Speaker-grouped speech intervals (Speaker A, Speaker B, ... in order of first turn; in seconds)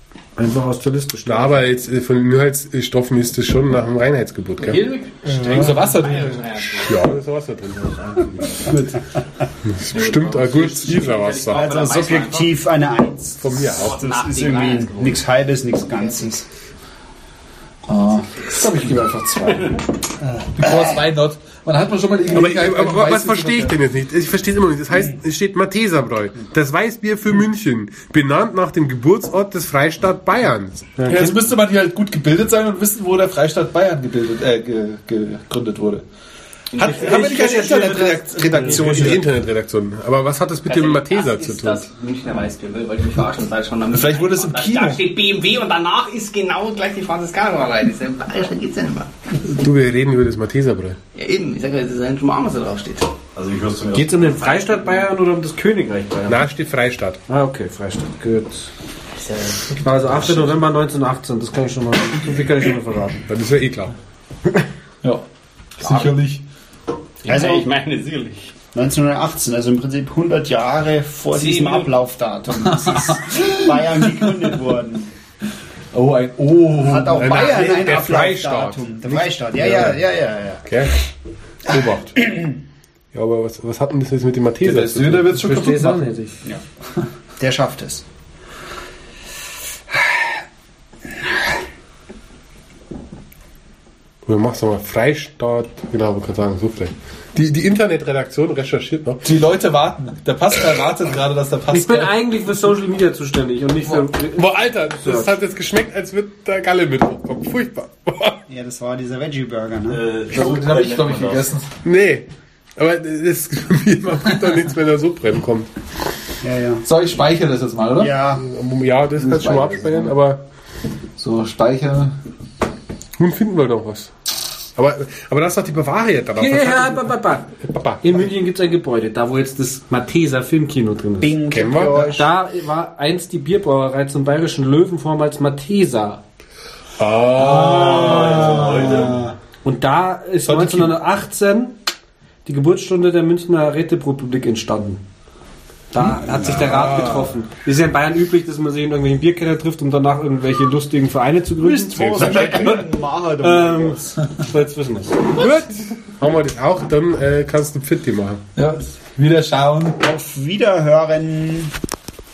Speaker A: 0.4-1.6, 31.0-31.4, 37.0-38.0, 53.9-56.4, 57.3-58.7, 59.8-63.2, 85.0-86.3, 101.7-105.3, 126.3-131.4, 132.0-136.2, 138.6-139.0, 139.6-141.7, 142.4-145.0, 145.9-152.8, 153.4-155.4
Speaker B: 1.2-4.8, 6.8-8.6, 9.6-11.6, 13.4-14.0, 22.3-31.1, 38.6-41.8, 49.4-51.0, 56.3-57.2, 63.3-63.9, 77.1-78.8, 79.6-80.0, 80.6-80.9, 81.6-82.2, 83.1-85.2, 94.2-99.2, 104.3-108.4, 111.8-115.7, 118.3-120.4, 123.2-124.1, 124.8-128.1, 131.5-132.0, 137.0-138.4, 146.7-147.3, 151.9-152.8, 155.3-158.4
Speaker C: 4.6-7.0, 9.9-12.6, 13.7-15.2, 15.9-16.3, 19.5-19.8, 36.7-38.9, 40.7-49.1, 51.1-53.1, 54.5-54.9, 59.2-60.5, 65.8-66.2, 67.2-68.5, 71.3-71.9
Speaker D: 5.3-5.7, 11.5-16.4, 20.4-20.9, 67.3-67.7, 68.7-75.1, 76.8-80.6, 87.4-88.0, 108.5-110.0, 116.4-116.8, 118.0-118.4, 131.2-132.3, 137.9-139.2, 151.6-154.3, 160.0-161.7
Speaker E: 5.5-6.5, 8.6-8.9, 17.9-19.8, 20.6-23.7, 31.1-36.0, 36.8-39.2, 43.9-45.0, 65.8-66.4, 75.9-77.2, 84.6-86.1, 99.2-102.1, 103.8-104.1, 110.2-111.7, 116.8-118.1, 119.2-120.1, 121.2-122.2, 137.4-139.1, 140.4-141.0, 146.3-146.6, 158.6-160.0
Speaker F: 53.3-54.5, 109.9-111.5, 138.0-139.2